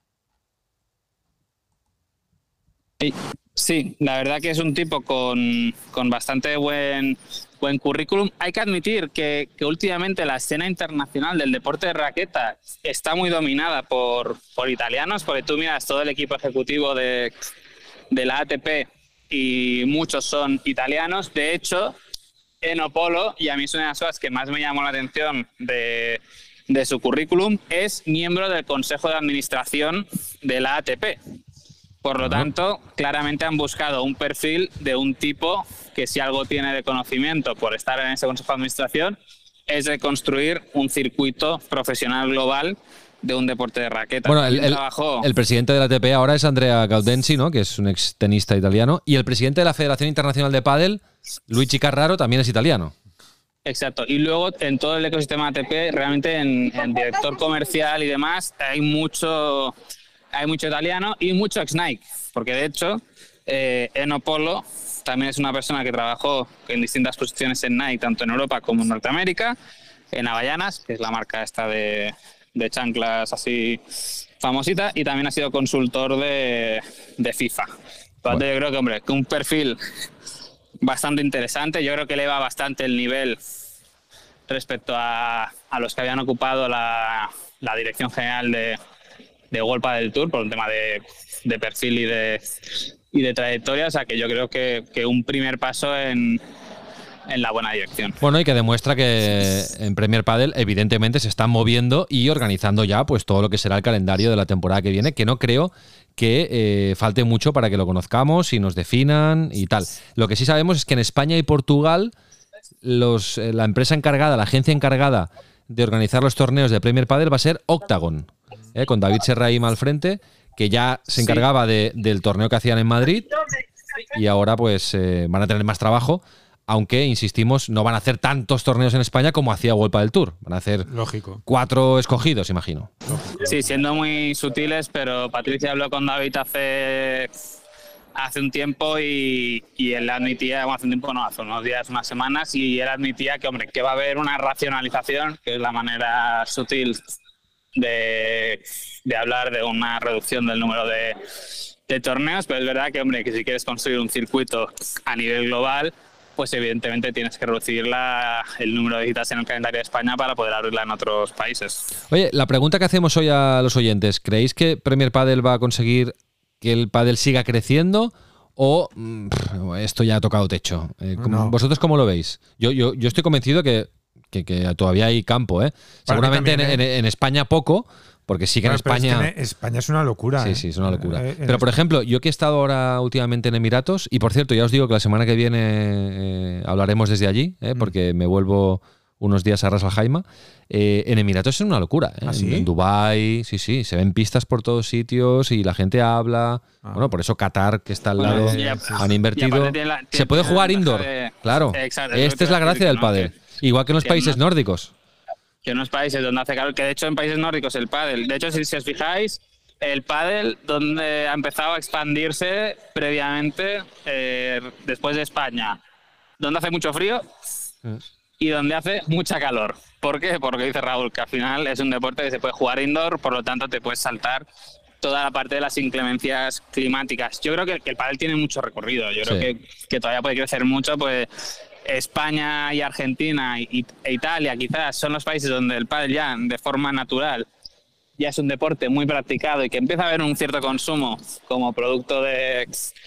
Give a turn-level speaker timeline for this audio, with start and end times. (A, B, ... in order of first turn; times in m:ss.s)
0:03.0-0:17.3 A
0:18.1-0:22.0 A
0:22.6-0:31.2 A
0:32.0-0:39.2 A
0:32.2-0:32.5 B
0:39.7-0:45.3 A
0:44.3-0:52.9 B
0:53.7-0:59.7 A
1:00.3-1:09.6 A
1:10.1-1:13.8 A
1:14.4-1:17.7 A
1:18.2-1:19.8 A
1:20.8-1:23.4 A
1:24.5-1:28.8 A
1:29.5-1:32.5 A
1:33.1-1:36.4 A
1:37.3-1:38.2 A
1:38.2-1:52.1 B
1:52.8-2:03.3 B
2:04.1-2:10.9 B
2:10.9-2:11.4 C
2:11.5-2:12.9 B
2:13.1-2:13.4 C
2:13.4-2:17.3 A
2:18.2-2:27.0 A
2:27.8-2:31.2 A
2:31.9-2:41.8 A
2:42.1-2:59.3 B
2:51.2-2:51.6 C
2:56.1-2:56.8 C
2:58.6-3:01.7 C
3:00.4-3:24.9 B
3:12.3-3:12.7 C
3:16.8-3:17.1 C
3:18.2-3:18.9 A
3:18.2-3:19.1 C
3:19.4-3:23.3 A
3:24.0-3:24.4 A
3:25.6-3:35.8 A
3:36.4-3:37.2 A
3:38.4-3:44.5 A
3:45.0-3:51.3 A
3:49.2-3:49.5 B
3:51.9-3:57.5 A
3:58.2-4:02.8 A